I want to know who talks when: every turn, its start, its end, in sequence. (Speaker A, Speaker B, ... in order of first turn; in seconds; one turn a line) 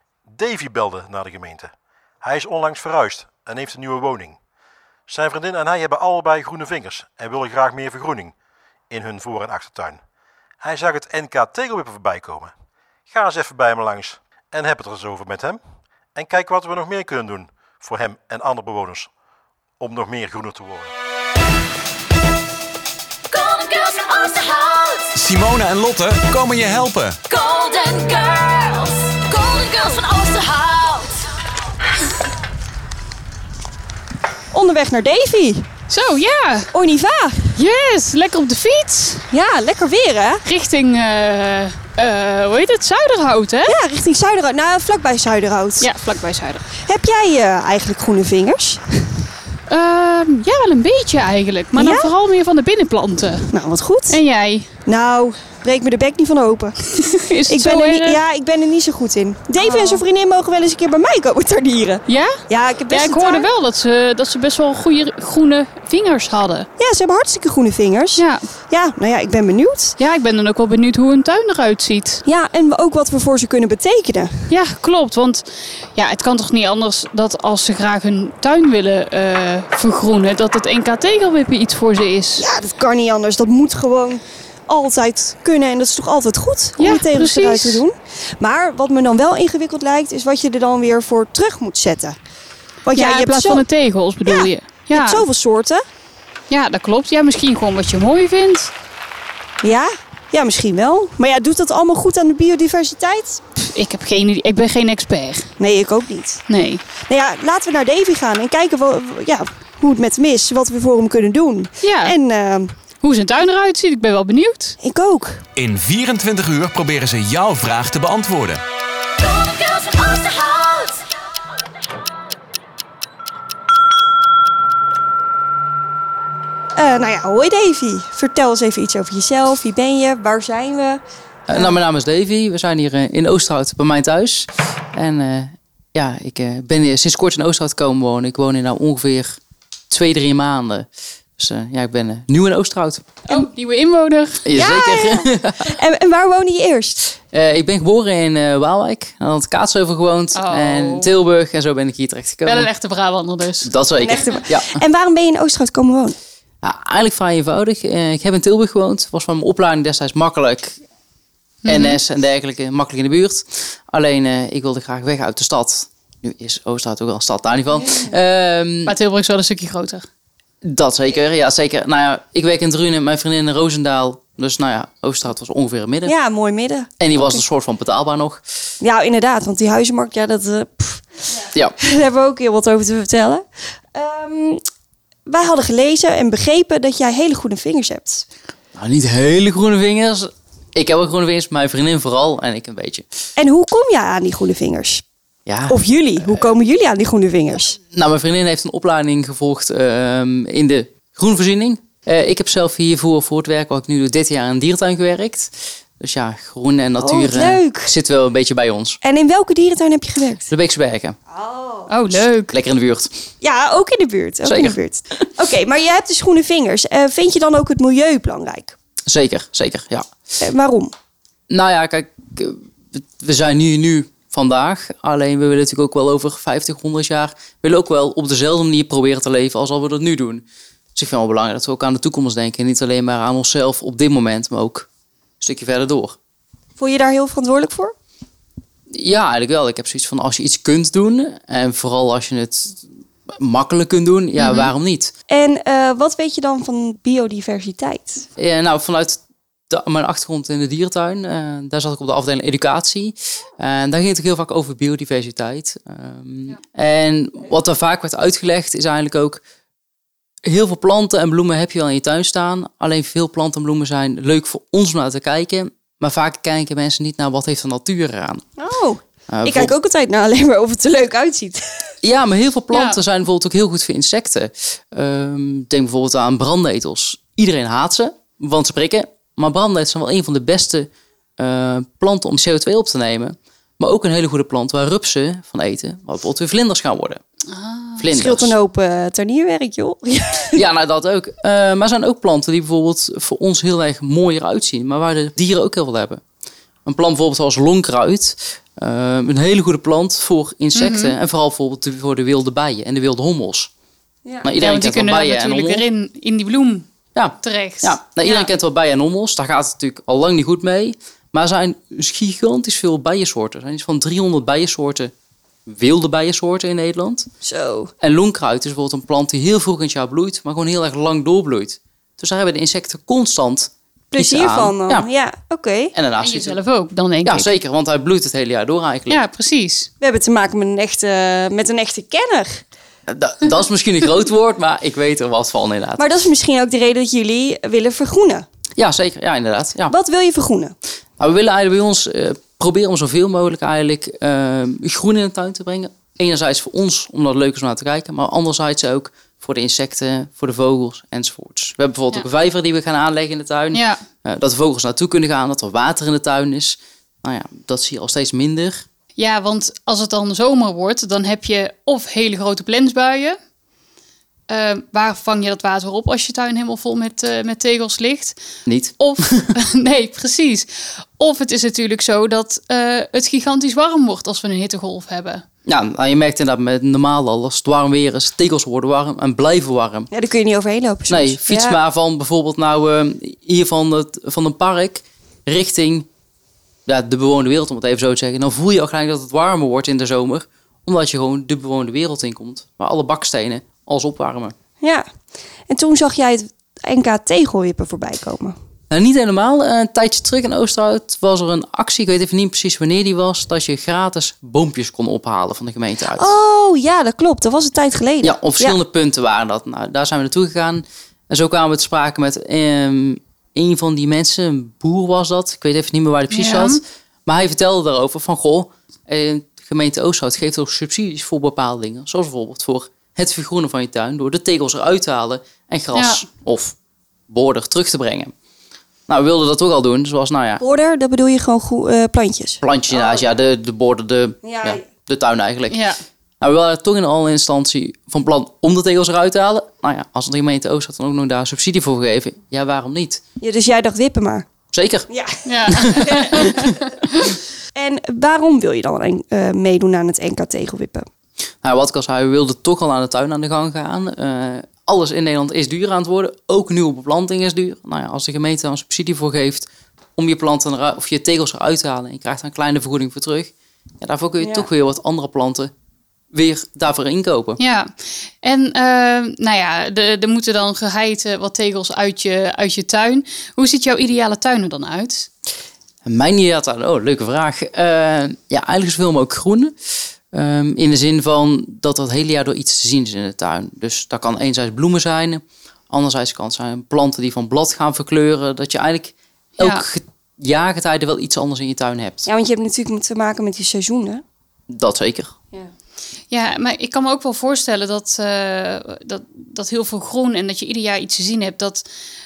Speaker A: 0.3-4.4
Speaker A: 5.1-8.3
Speaker A: 8.9-10.0
Speaker A: 10.6-12.5
Speaker A: 13.1-15.6
Speaker A: 16.1-19.1
Speaker A: 19.8-20.9
Speaker B: 24.1-24.9
Speaker C: 25.1-27.3
Speaker B: 27.5-28.3
Speaker D: 29.4-31.1
Speaker B: 30.1-30.9
Speaker E: 34.5-35.7
Speaker D: 35.9-36.7
Speaker E: 36.7-37.5
Speaker D: 37.5-39.3
Speaker E: 39.3-40.4
Speaker D: 40.4-43.8
Speaker E: 43.7-45.9
Speaker D: 45.8-46.6
Speaker E: 46.8-49.0
Speaker D: 49.7-53.5
Speaker E: 51.7-52.1
Speaker E: 53.5-54.2
Speaker D: 54.1-54.7
Speaker E: 54.9-56.9
Speaker D: 57.0-58.2
Speaker E: 57.5-63.5
Speaker D: 59.6-60.0
Speaker D: 62.1-66.7
Speaker E: 66.8-70.0
Speaker D: 68.2-68.4
Speaker D: 70.0-72.2
Speaker E: 72.2-74.5
Speaker D: 74.5-82.5
Speaker E: 82.4-92.2
Speaker D: 86.8-87.8
Speaker E: 92.8-93.6
Speaker D: 92.9-95.2
Speaker E: 94.3-95.8
Speaker D: 96.5-98.7
Speaker E: 99.6-103.4
Speaker D: 103.6-105.5
Speaker E: 105.6-106.4
Speaker D: 106.5-106.8
Speaker E: 107.1-112.7
Speaker D: 111.8-112.1
Speaker D: 113.0-114.8
Speaker E: 114.8-115.4
Speaker C: 115.5-118.6
Speaker E: 126.8-131.8
Speaker F: 131.5-139.4
Speaker F: 139.9-140.9
Speaker F: 141.4-143.2
Speaker D: 143.2-144.4
Speaker F: 144.4-145.7
Speaker E: 144.5-147.1
Speaker F: 147.3-152.7
Speaker D: 150.3-151.1
Speaker D: 152.4-153.7
Speaker F: 153.6-154.8
Speaker E: 154.0-156.2
Speaker F: 156.6-160.8
Speaker D: 161.6-162.0
Speaker F: 161.7-168.9
Speaker E: 167.8-168.1
Speaker D: 168.8-170.1
Speaker F: 170.6-176.1
Speaker E: 176.0-177.4
Speaker F: 177.0-178.4
Speaker E: 178.8-184.6
Speaker E: 185.3-188.2
Speaker F: 188.7-193.0
Speaker E: 193.4-195.0
Speaker F: 195.5-196.5
Speaker E: 195.7-197.8
Speaker F: 197.9-209.0
Speaker E: 207.0-207.9
Speaker E: 209.0-210.5
Speaker F: 210.5-211.2
Speaker E: 211.3-211.9
Speaker D: 211.9-212.6
Speaker F: 212.5-213.1
Speaker E: 213.4-218.7
Speaker F: 214.4-214.8
Speaker F: 219.1-220.1
Speaker E: 220.4-220.9
Speaker F: 221.5-234.9
Speaker F: 235.4-236.2
Speaker E: 236.8-237.9
Speaker F: 238.9-245.1
Speaker D: 244.4-244.7
Speaker E: 245.3-248.2
Speaker F: 248.4-249.2
Speaker F: 249.7-259.4
Speaker F: 260.4-268.4
Speaker E: 268.6-271.8
Speaker F: 269.3-269.7
Speaker F: 272.0-287.2
Speaker D: 272.7-273.0
Speaker D: 287.5-288.0
Speaker F: 288.0-288.5
Speaker E: 288.1-290.6
Speaker F: 290.5-296.2
Speaker F: 296.9-303.7
Speaker D: 300.7-301.1
Speaker F: 304.4-305.8
Speaker D: 304.6-306.9
Speaker F: 307.1-315.1
Speaker D: 307.4-308.5
Speaker F: 315.6-317.3
Speaker E: 317.4-317.9
Speaker F: 318.0-325.1
Speaker E: 324.1-325.9
Speaker F: 325.9-326.6
Speaker D: 326.2-327.5
Speaker F: 327.2-329.2
Speaker D: 329.1-329.9
Speaker E: 330.0-332.6
Speaker F: 333.1-336.0
Speaker E: 336.0-338.4
Speaker F: 338.8-339.9
Speaker E: 339.9-340.7
Speaker F: 341.2-358.8
Speaker D: 353.7-354.0
Speaker D: 359.2-363.4
Speaker D: 364.5-368.4
Speaker F: 368.7-369.5
Speaker D: 369.0-375.4
Speaker F: 375.6-380.1
Speaker E: 380.1-381.8
Speaker F: 381.1-386.1
Speaker F: 386.9-394.5
Speaker E: 394.8-395.1
Speaker E: 395.7-398.5
Speaker F: 398.9-406.3
Speaker E: 406.1-408.8
Speaker F: 408.2-426.7
Speaker D: 416.3-416.8
Speaker D: 425.9-426.2
Speaker F: 427.3-428.3
Speaker F: 429.1-430.6
Speaker E: 430.6-433.2
Speaker F: 432.6-435.8
Speaker E: 434.4-434.8
Speaker D: 435.7-436.0
Speaker F: 436.4-443.2
Speaker E: 443.4-444.5
Speaker F: 444.7-445.1
Speaker E: 445.1-446.5
Speaker D: 445.4-447.3
Speaker F: 445.7-446.7
Speaker E: 447.7-451.1
Speaker F: 451.6-465.7
Speaker E: 464.4-464.6
Speaker F: 466.3-467.6
Speaker D: 467.6-475.3
Speaker F: 476.1-479.7
Speaker F: 480.3-492.3
Speaker D: 489.6-489.8
Speaker E: 492.2-494.2
Speaker F: 494.7-495.3
Speaker D: 496.3-501.8